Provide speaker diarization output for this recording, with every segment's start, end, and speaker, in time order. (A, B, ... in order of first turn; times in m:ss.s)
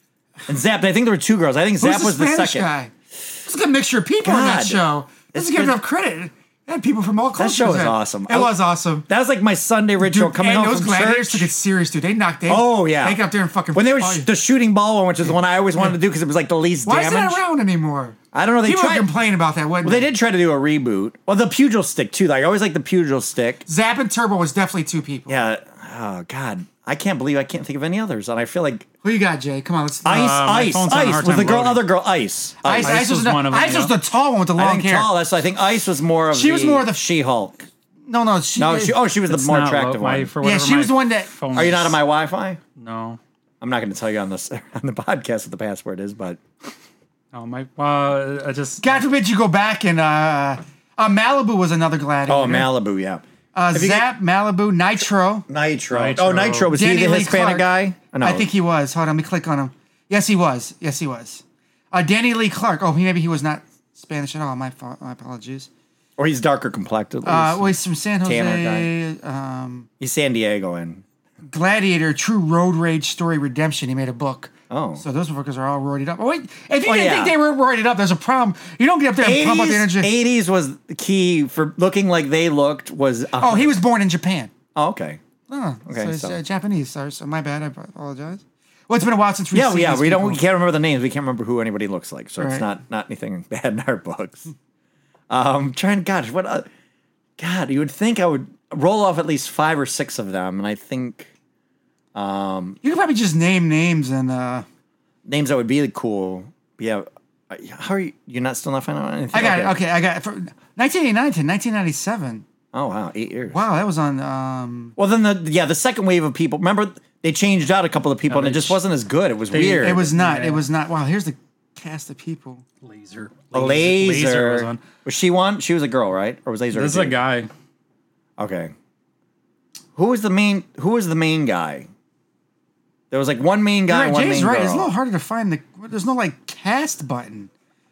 0:00.5-0:02.7 A
0:01.8-0:02.9 B
0:03.4-0:09.1 B
0:04.2-0:05.8 A
0:07.4-0:08.6 A
0:09.1-0:11.5 A
0:10.0-0:14.3 B
0:12.5-0:13.2 A
0:13.7-0:17.4 A
0:16.9-0:20.1 B
0:18.3-0:19.1 A
0:19.8-0:23.6 A
0:23.7-0:25.4 B
0:25.3-0:28.9 A
0:29.0-0:31.0 B
0:30.0-0:33.0 A
0:30.1-0:31.8 C
0:32.6-0:35.1 B
0:32.8-0:34.0 C
0:34.6-0:37.6 A
0:36.3-0:37.0 B
0:38.1-0:39.0 B
0:38.6-0:40.3 A
0:39.3-0:42.0 C
0:40.4-0:41.3 B
0:41.5-0:42.6 A
0:42.8-0:43.2 C
0:43.6-0:46.4 A
0:47.3-0:49.0 C
0:48.8-0:52.7 B
0:52.3-0:54.1 A
0:53.6-0:55.5 B
0:55.5-0:58.5 A
0:55.9-0:56.7 C
0:56.7-1:05.7 B
1:06.2-1:08.9 A
1:07.2-1:09.9 B
1:10.0-1:11.0 A
1:11.4-1:20.1 B
1:14.7-1:15.0 A
1:16.8-1:17.4 A
1:19.2-1:23.7 A
1:23.4-1:24.5 B
1:24.8-1:25.2 A
1:25.5-1:30.4 B
1:25.9-1:26.4 A
1:29.5-1:34.5 A
1:32.4-1:32.6 B
1:35.3-1:36.7 A
1:37.4-1:41.3 A
1:42.1-1:42.8 A
1:42.8-1:44.6 B
1:45.2-1:49.8 A
1:49.3-1:52.4 B
1:52.7-1:53.6 A
1:53.5-1:55.0 B
1:55.0-2:00.1 A
1:58.3-1:58.8 C
1:59.5-2:00.6 C
1:59.6-2:02.6 B
2:02.8-2:04.8 C
2:03.5-2:07.2 A
2:06.7-2:07.5 C
2:08.4-2:08.7 A
2:10.0-2:11.9 A
2:13.1-2:14.9 A
2:13.9-2:17.5 B